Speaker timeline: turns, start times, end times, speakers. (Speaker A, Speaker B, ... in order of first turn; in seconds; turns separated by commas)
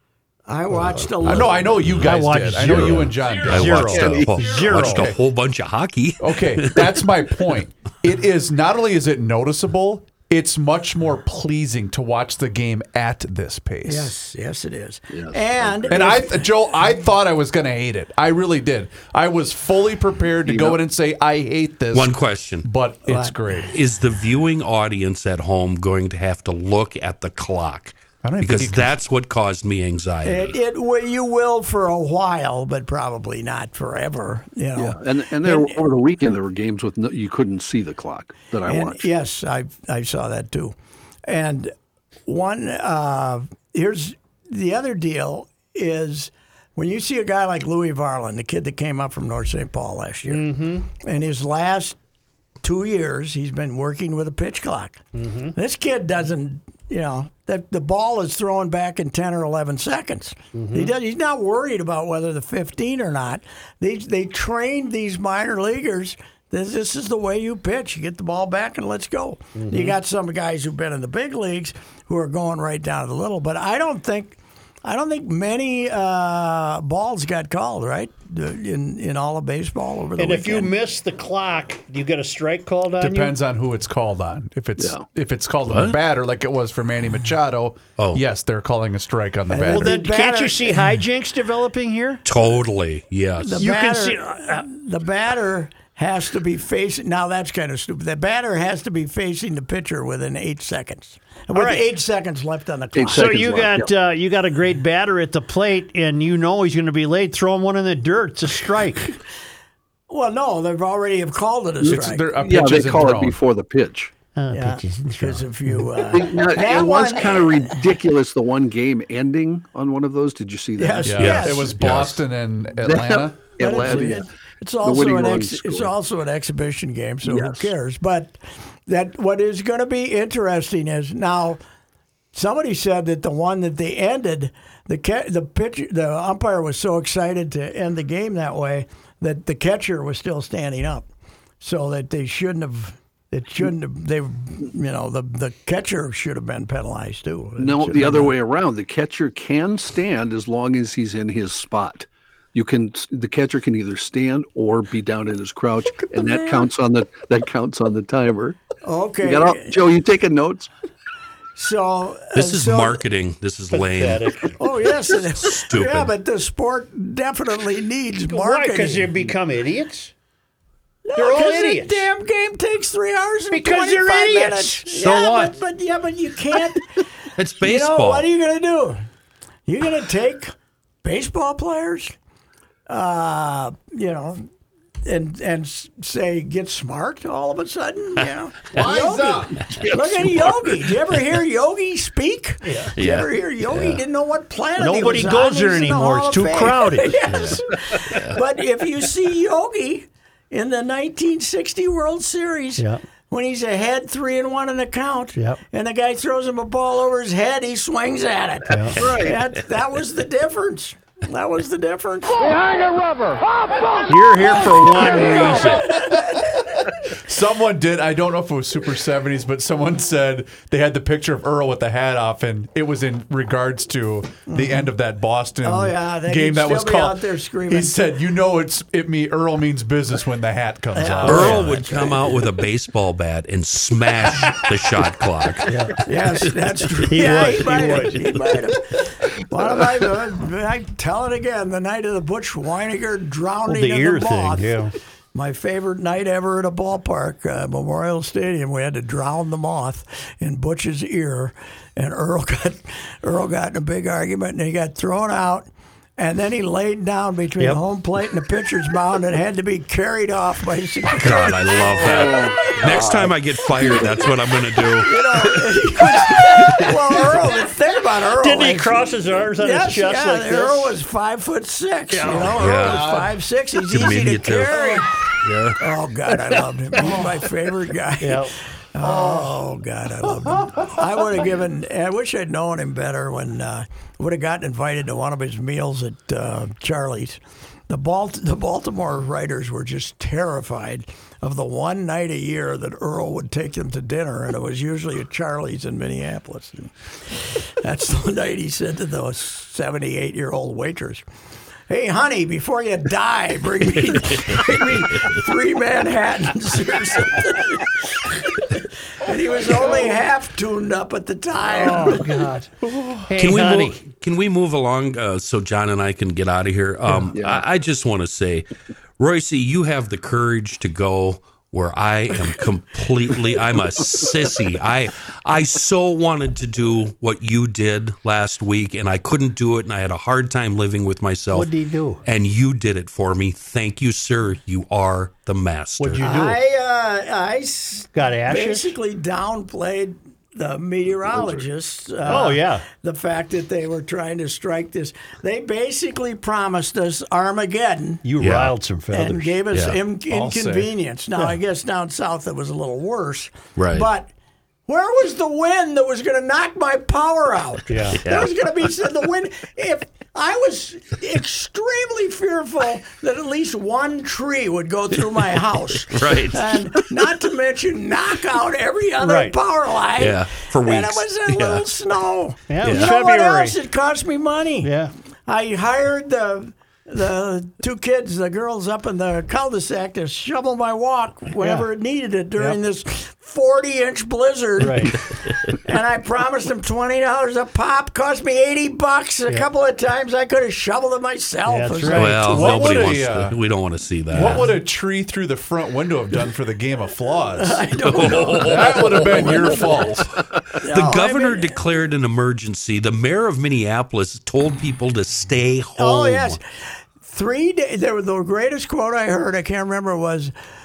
Speaker A: 0.5-1.8, Speaker B: 0.7-2.1, Speaker C: 1.2-4.0, Speaker D: 2.0-5.1, Speaker B: 2.6-7.0, Speaker E: 3.9-4.4, Speaker C: 4.6-5.2, Speaker C: 6.2-14.1, Speaker A: 13.8-16.5, Speaker E: 15.1-16.1, Speaker C: 15.9-23.7, Speaker E: 20.5-20.8, Speaker B: 21.9-22.6, Speaker A: 23.1-23.3, Speaker B: 23.7-30.6, Speaker C: 28.2-29.0, Speaker A: 30.2-35.8, Speaker E: 34.7-39.1, Speaker A: 38.7-40.7, Speaker A: 41.3-41.7, Speaker A: 42.2-52.0, Speaker D: 50.2-50.9, Speaker A: 52.6-80.7, Speaker D: 55.1-55.5, Speaker D: 60.5-60.9, Speaker D: 69.5-70.0, Speaker D: 80.2-83.4, Speaker C: 83.0-90.0, Speaker E: 84.8-85.0, Speaker B: 85.7-86.0, Speaker A: 89.5-91.0, Speaker D: 89.6-92.2, Speaker B: 92.2-93.6, Speaker A: 93.4-103.6, Speaker D: 93.5-94.6, Speaker D: 101.5-101.8, Speaker E: 102.9-103.9, Speaker D: 103.1-109.1, Speaker A: 110.1-112.3, Speaker E: 111.8-114.1, Speaker C: 111.8-113.4, Speaker D: 114.3-115.9, Speaker A: 114.5-117.8, Speaker E: 116.1-121.4, Speaker A: 120.8-121.8, Speaker C: 121.0-123.9, Speaker B: 121.2-122.2, Speaker E: 122.8-124.3, Speaker A: 123.6-131.6, Speaker E: 124.8-125.9, Speaker E: 127.2-127.7, Speaker A: 132.3-141.1, Speaker A: 141.6-148.3, Speaker E: 147.6-158.6, Speaker A: 155.8-156.7, Speaker A: 158.8-159.9, Speaker E: 159.2-160.7, Speaker A: 161.6-163.0, Speaker B: 162.3-164.3, Speaker D: 163.8-164.6, Speaker A: 164.6-169.2, Speaker B: 165.4-166.1, Speaker D: 168.3-170.1, Speaker A: 171.0-177.0, Speaker D: 171.2-172.1, Speaker D: 173.5-174.9, Speaker B: 174.9-175.5, Speaker B: 177.4-178.3, Speaker A: 177.6-179.0, Speaker A: 179.7-182.1, Speaker A: 182.9-184.5, Speaker A: 185.0-212.8, Speaker C: 188.7-190.1, Speaker B: 189.7-190.7, Speaker D: 192.6-192.9, Speaker B: 193.0-194.0, Speaker D: 194.8-197.5, Speaker B: 197.3-197.6, Speaker B: 198.1-198.3, Speaker D: 208.7-209.0, Speaker E: 209.0-209.4, Speaker D: 214.1-216.0, Speaker A: 214.9-216.6, Speaker C: 217.2-231.7, Speaker A: 224.5-224.9, Speaker A: 225.6-228.1, Speaker A: 230.9-232.4, Speaker B: 231.2-236.4, Speaker D: 235.7-236.0, Speaker A: 236.0-244.7, Speaker D: 237.1-238.4, Speaker D: 243.7-244.9, Speaker A: 245.3-263.1, Speaker B: 261.1-265.6, Speaker E: 262.0-264.2, Speaker A: 263.9-264.3, Speaker A: 264.9-301.2, Speaker B: 266.6-266.9, Speaker D: 268.4-270.9, Speaker D: 272.1-272.6, Speaker B: 272.6-273.1, Speaker C: 272.6-273.4, Speaker B: 273.9-274.8, Speaker B: 275.4-275.8, Speaker C: 277.0-277.4, Speaker D: 278.2-278.5, Speaker C: 279.0-279.6, Speaker C: 280.2-281.0, Speaker A: 301.9-312.3, Speaker B: 304.1-304.5, Speaker D: 311.7-312.7, Speaker C: 312.8-313.3, Speaker D: 313.2-314.0, Speaker B: 313.4-318.6, Speaker E: 317.3-317.6, Speaker B: 319.2-331.7, Speaker D: 331.5-332.2, Speaker B: 332.2-336.2, Speaker D: 336.0-336.6, Speaker A: 336.2-348.2, Speaker D: 338.1-338.9, Speaker D: 342.2-342.8, Speaker D: 348.2-349.6, Speaker B: 348.4-348.7, Speaker A: 349.1-354.3, Speaker B: 349.7-350.0, Speaker C: 350.3-350.9, Speaker B: 353.8-354.1, Speaker A: 354.9-374.9, Speaker D: 357.9-358.2, Speaker B: 358.2-358.5, Speaker B: 366.0-366.9, Speaker D: 369.2-369.6, Speaker B: 370.2-371.9, Speaker D: 372.7-373.8, Speaker B: 372.8-373.1, Speaker D: 374.8-375.1, Speaker A: 375.5-392.9, Speaker D: 381.6-381.9, Speaker D: 384.8-385.2, Speaker D: 391.7-392.6, Speaker B: 392.1-394.7, Speaker C: 392.4-393.6, Speaker C: 394.3-400.3, Speaker A: 397.5-400.1, Speaker B: 398.0-399.7, Speaker B: 400.7-406.6, Speaker A: 400.8-401.8, Speaker A: 406.0-406.6, Speaker A: 407.2-410.5